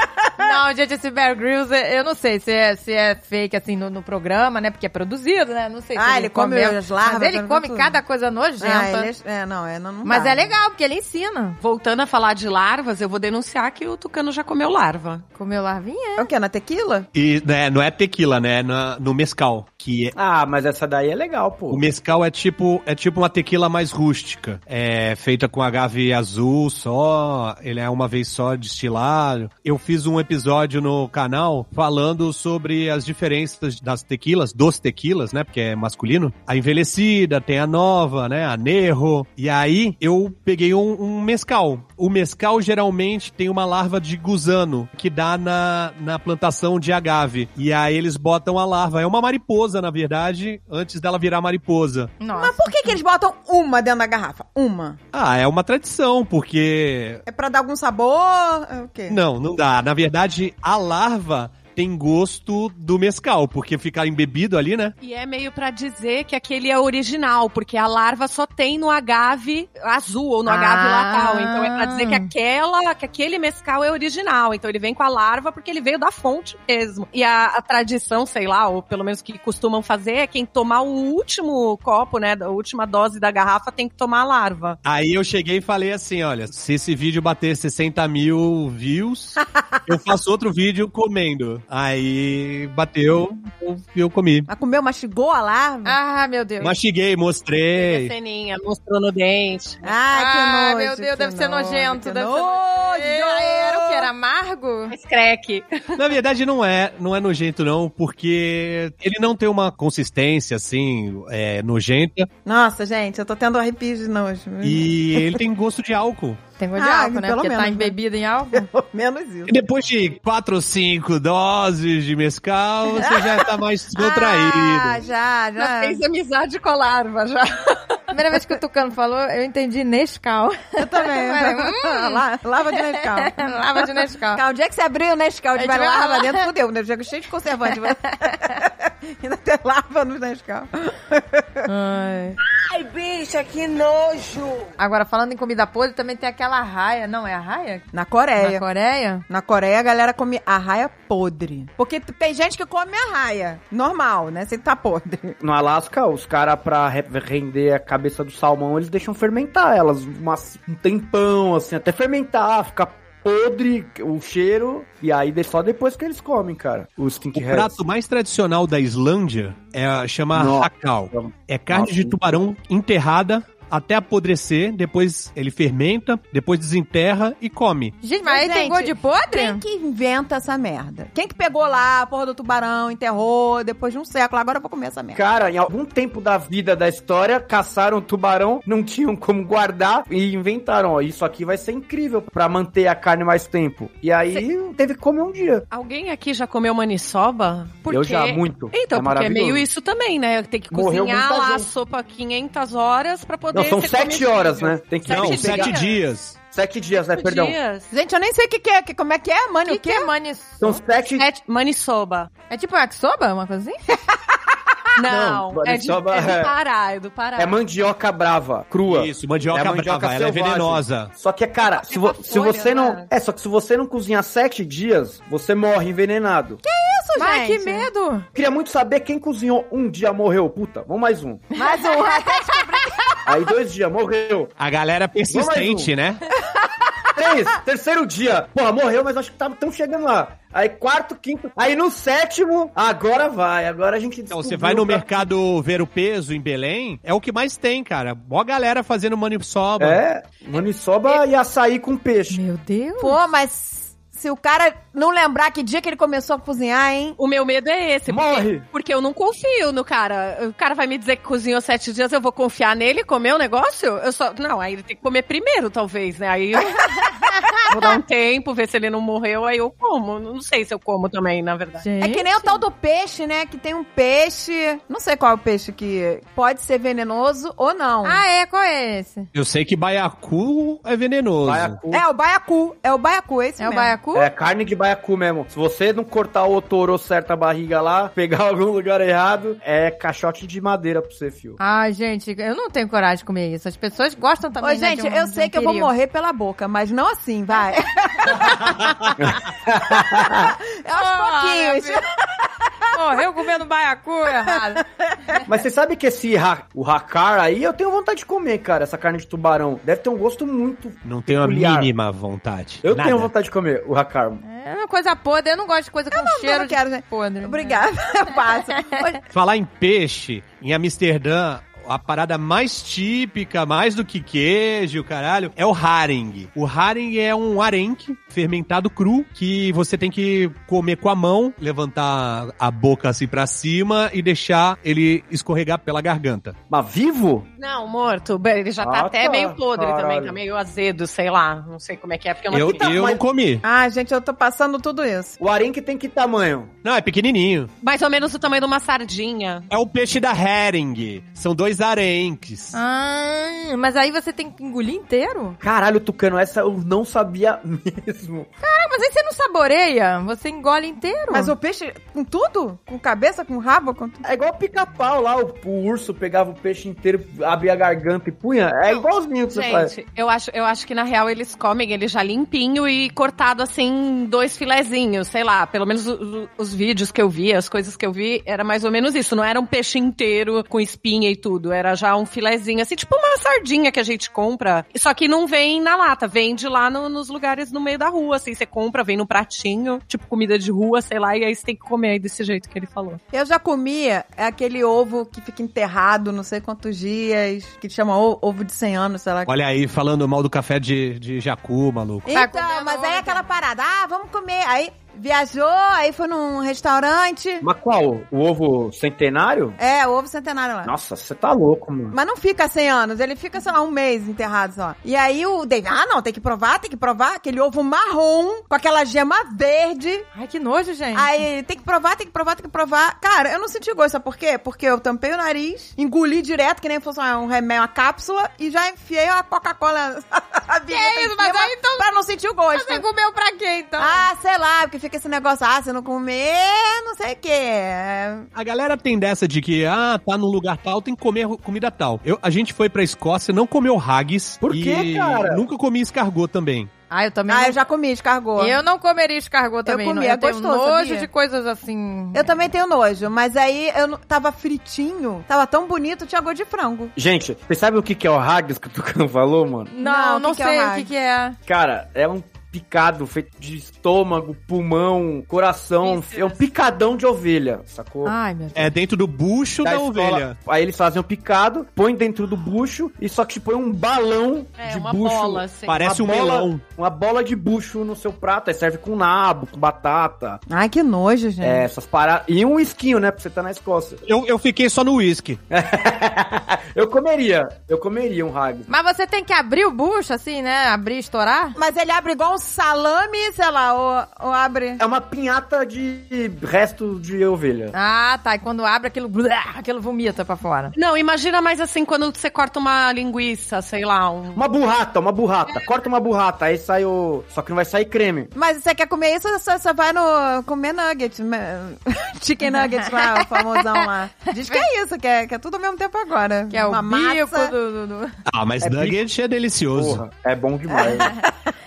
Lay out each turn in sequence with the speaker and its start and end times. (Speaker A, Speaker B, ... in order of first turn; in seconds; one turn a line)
Speaker A: 0.4-9.1
Speaker B: 5.9-7.9
Speaker B: 8.6-10.5
Speaker A: 10.0-11.6
Speaker C: 11.6-15.2
Speaker A: 15.3-16.3
Speaker B: 16.2-17.1
Speaker D: 17.1-20.1
Speaker E: 20.1-21.8
Speaker D: 21.7-52.2
Speaker A: 52.2-53.0
Speaker B: 52.3-55.0
Speaker D: 55.1-57.2
Speaker B: 57.2-59.2
Speaker D: 59.1-64.9
Speaker C: 65.0-84.8
Speaker A: 70.5-72.3
Speaker D: 84.8-94.5
Speaker B: 94.5-96.0
Speaker A: 95.8-96.8
Speaker D: 96.6-98.1
Speaker C: 97.8-99.8
Speaker B: 99.8-104.1
Speaker A: 100.1-104.9
Speaker C: 104.9-106.0
Speaker D: 106.0-112.3
Speaker B: 112.4-115.3
Speaker D: 114.6-116.4
Speaker A: 116.6-118.7
Speaker B: 116.8-117.9
Speaker B: 118.5-119.5
Speaker D: 119.5-125.0
Speaker B: 123.0-126.0
Speaker C: 125.6-128.0
Speaker A: 128.1-132.2
Speaker B: 130.8-133.3
Speaker A: 133.1-134.4
Speaker B: 134.3-141.7
Speaker A: 135.6-136.5
Speaker A: 141.7-142.4
Speaker F: 142.7-144.7
Speaker A: 144.8-147.8
Speaker B: 147.9-148.6
Speaker A: 148.4-149.2
Speaker B: 149.3-155.4
Speaker E: 155.4-167.7
Speaker D: 167.3-178.0
Speaker E: 170.3-172.3
Speaker A: 178.0-179.6
Speaker B: 178.2-185.2
Speaker E: 185.1-195.6
Speaker C: 195.7-206.0
Speaker E: 197.9-199.6
Speaker E: 200.7-201.7
Speaker E: 203.5-205.8
Speaker D: 205.1-206.4
Speaker E: 206.5-207.6
Speaker C: 207.1-207.9
Speaker B: 207.9-210.1
Speaker A: 209.7-210.8
Speaker E: 210.6-211.2
Speaker C: 211.2-212.3
Speaker A: 212.5-213.8
Speaker C: 214.9-217.6
Speaker E: 215.1-216.5
Speaker E: 217.3-226.6
Speaker D: 218.9-221.1
Speaker B: 221.6-223.1
Speaker B: 226.6-227.9
Speaker A: 227.2-228.2
Speaker E: 228.3-231.4
Speaker A: 231.6-232.5
Speaker B: 231.6-233.0
Speaker E: 233.2-234.5
Speaker D: 234.6-236.2
Speaker E: 235.3-235.9
Speaker E: 237.1-245.1
Speaker D: 244.3-250.0
Speaker E: 249.8-252.4
Speaker A: 252.3-253.2
Speaker B: 253.0-257.2
Speaker C: 257.2-266.9
Speaker E: 258.1-258.6
Speaker A: 267.3-267.6
Speaker C: 267.6-271.8
Speaker A: 271.8-272.6
Speaker B: 272.0-278.2
Speaker A: 278.0-279.3
Speaker D: 279.3-281.8
Speaker E: 281.4-282.0
Speaker B: 281.9-283.9
Speaker A: 283.6-284.3
Speaker E: 284.1-291.6
Speaker A: 291.6-295.9
Speaker B: 294.6-299.1
Speaker E: 299.2-300.5
Speaker B: 300.0-303.2
Speaker A: 300.9-302.0
Speaker A: 302.9-305.4
Speaker E: 305.4-311.9
Speaker D: 311.0-313.3
Speaker E: 312.8-314.4
Speaker A: 314.4-317.8
Speaker B: 316.1-319.1
Speaker D: 319.3-336.6
Speaker E: 336.7-337.4
Speaker C: 337.6-343.0
Speaker E: 338.8-340.4
Speaker D: 342.5-343.6
Speaker E: 342.7-343.2
Speaker B: 343.6-345.4
Speaker E: 345.4-346.7
Speaker D: 346.8-347.7
Speaker C: 347.8-349.7
Speaker D: 349.7-352.7
Speaker A: 352.7-355.6
Speaker E: 355.6-358.5
Speaker A: 358.6-361.5
Speaker B: 361.3-364.2
Speaker E: 364.2-369.9
Speaker C: 368.9-393.2
Speaker B: 393.3-399.5
Speaker D: 399.4-402.3
Speaker B: 402.3-407.6
Speaker A: 402.3-403.6
Speaker E: 407.6-409.8
Speaker B: 409.8-410.9
Speaker E: 410.8-412.1
Speaker B: 412.1-420.3
Speaker A: 420.3-421.4
Speaker B: 421.1-433.0
Speaker A: 430.9-432.1
Speaker A: 432.7-434.3
Speaker B: 434.0-438.5
Speaker D: 438.5-446.9
Speaker E: 444.6-445.6
Speaker A: 447.1-447.8
Speaker B: 447.5-448.8
Speaker A: 448.6-452.5
Speaker B: 449.9-451.3
Speaker B: 452.3-457.1
Speaker E: 457.1-459.9
Speaker A: 459.9-461.6
Speaker B: 460.0-461.1
Speaker E: 461.7-468.3
Speaker C: 466.0-466.6
Speaker A: 468.2-468.9
Speaker D: 468.8-470.6
Speaker E: 469.8-480.6
Speaker C: 474.8-476.0
Speaker D: 474.9-476.8
Speaker B: 480.7-481.8
Speaker E: 481.6-484.2
Speaker D: 484.2-485.6
Speaker E: 485.7-488.9
Speaker A: 488.9-491.8
Speaker B: 491.8-495.0
Speaker E: 495.0-497.9
Speaker A: 497.9-500.9
Speaker C: 500.9-504.6
Speaker E: 504.5-508.5
Speaker B: 508.5-517.7
Speaker A: 513.1-513.7
Speaker A: 514.6-514.9
Speaker A: 516.7-518.3
Speaker D: 518.5-520.2
Speaker E: 518.8-519.2
Speaker E: 519.9-521.3
Speaker B: 520.9-521.4